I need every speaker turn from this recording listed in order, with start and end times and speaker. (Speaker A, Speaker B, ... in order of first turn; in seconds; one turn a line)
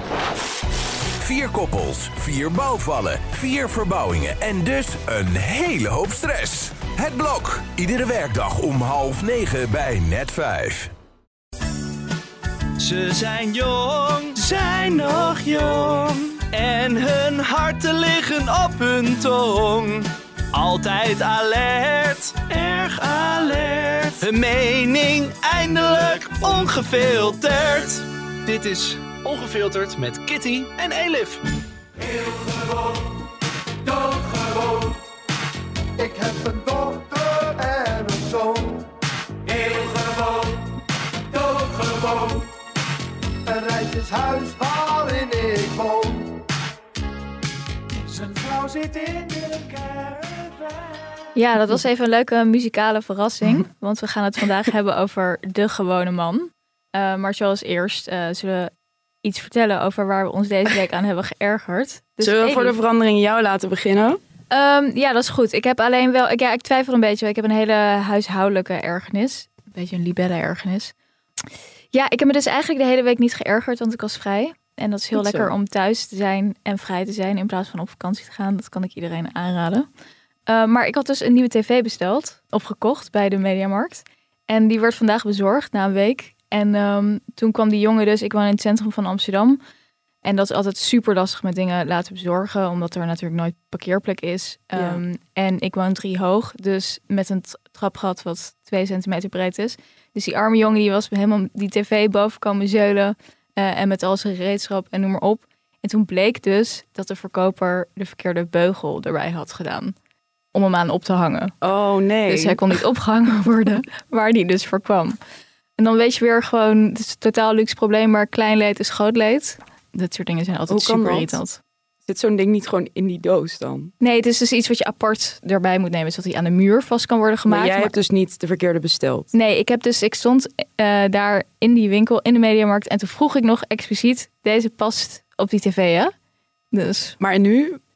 Speaker A: 1.2-10.9
Speaker B: 12.8-31.4
Speaker C: 32.4-32.8
Speaker C: 33.9-34.9
Speaker C: 36.0-38.8
Speaker C: 39.5-40.6
Speaker C: 41.3-42.5
Speaker C: 43.5-46.4
Speaker C: 48.1-50.8
Speaker D: 51.3-58.7
Speaker D: 59.2-62.7
Speaker E: 62.2-64.2
Speaker D: 64.5-70.9
Speaker D: 71.9-79.9
Speaker E: 75.1-75.5
Speaker D: 80.5-89.6
Speaker D: 90.2-109.9
Speaker E: 94.7-95.0
Speaker D: 110.5-111.5
Speaker E: 111.6-112.6
Speaker D: 112.3-115.2
Speaker D: 115.8-121.6
Speaker E: 120.7-121.4
Speaker E: 122.0-123.9
Speaker D: 124.0-127.9
Speaker E: 127.5-129.3
Speaker D: 129.3-136.1
Speaker D: 136.7-137.2
Speaker E: 137.2-137.8